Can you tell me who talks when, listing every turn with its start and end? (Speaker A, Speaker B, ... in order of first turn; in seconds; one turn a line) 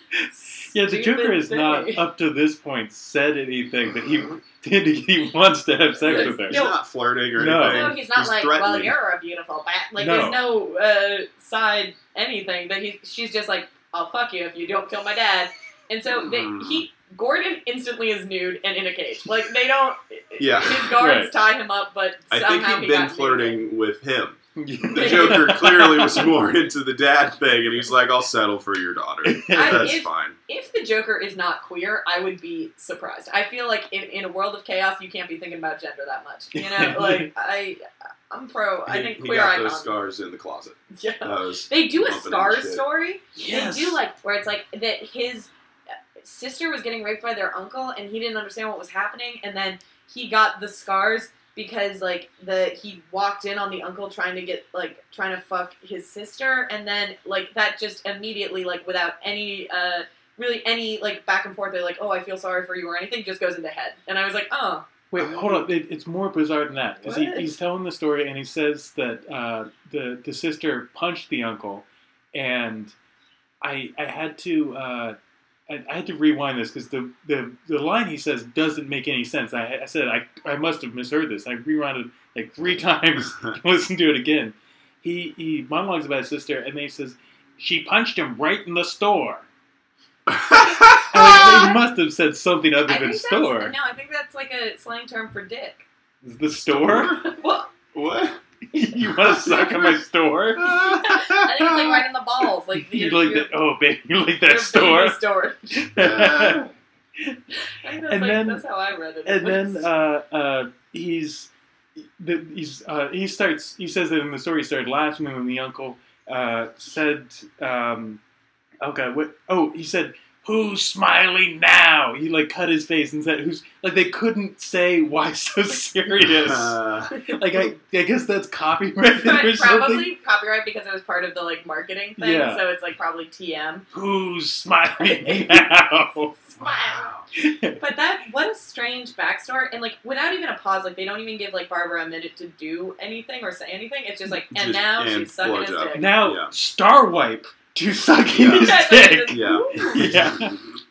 Speaker A: 0.3-2.0
Speaker B: 0.7-6.6
Speaker A: 6.0-6.8
Speaker C: 6.0-8.9
Speaker B: 7.4-8.0
Speaker A: 7.6-23.6
Speaker B: 10.0-10.4
Speaker C: 16.1-16.8
Speaker C: 20.4-20.9
Speaker B: 21.0-21.3
Speaker C: 22.3-30.4
Speaker B: 24.6-26.3
Speaker A: 24.9-25.6
Speaker B: 29.2-30.0
Speaker A: 29.5-39.9
Speaker B: 36.5-37.3
Speaker C: 38.9-42.9
Speaker A: 40.9-45.5
Speaker B: 43.4-44.0
Speaker A: 46.2-64.9
Speaker B: 65.1-72.9
Speaker C: 65.2-65.7
Speaker A: 67.0-67.5
Speaker B: 73.6-75.2
Speaker B: 75.7-89.5
Speaker C: 90.3-91.6
Speaker B: 91.1-93.7
Speaker A: 91.1-91.8
Speaker A: 92.9-95.8
Speaker B: 96.2-97.2
Speaker C: 96.7-97.2
Speaker A: 97.2-97.7
Speaker C: 97.9-98.4
Speaker B: 98.7-100.8
Speaker C: 99.0-99.6
Speaker A: 99.3-100.0
Speaker C: 100.6-102.0
Speaker A: 100.7-103.5
Speaker B: 102.8-105.2
Speaker A: 104.4-105.9
Speaker B: 105.8-107.4
Speaker C: 106.0-106.7
Speaker A: 107.8-109.9
Speaker B: 108.1-108.6
Speaker B: 109.3-118.2
Speaker B: 118.8-130.1
Speaker C: 126.2-127.1
Speaker A: 127.1-127.7
Speaker A: 129.2-133.9
Speaker B: 132.2-132.6
Speaker B: 133.9-136.4
Speaker A: 135.0-135.5
Speaker A: 136.6-137.1
Speaker C: 136.6-137.2
Speaker B: 137.3-137.8
Speaker A: 137.8-146.1
Speaker C: 144.5-146.5
Speaker B: 145.9-150.5
Speaker C: 148.3-150.7
Speaker A: 148.5-150.1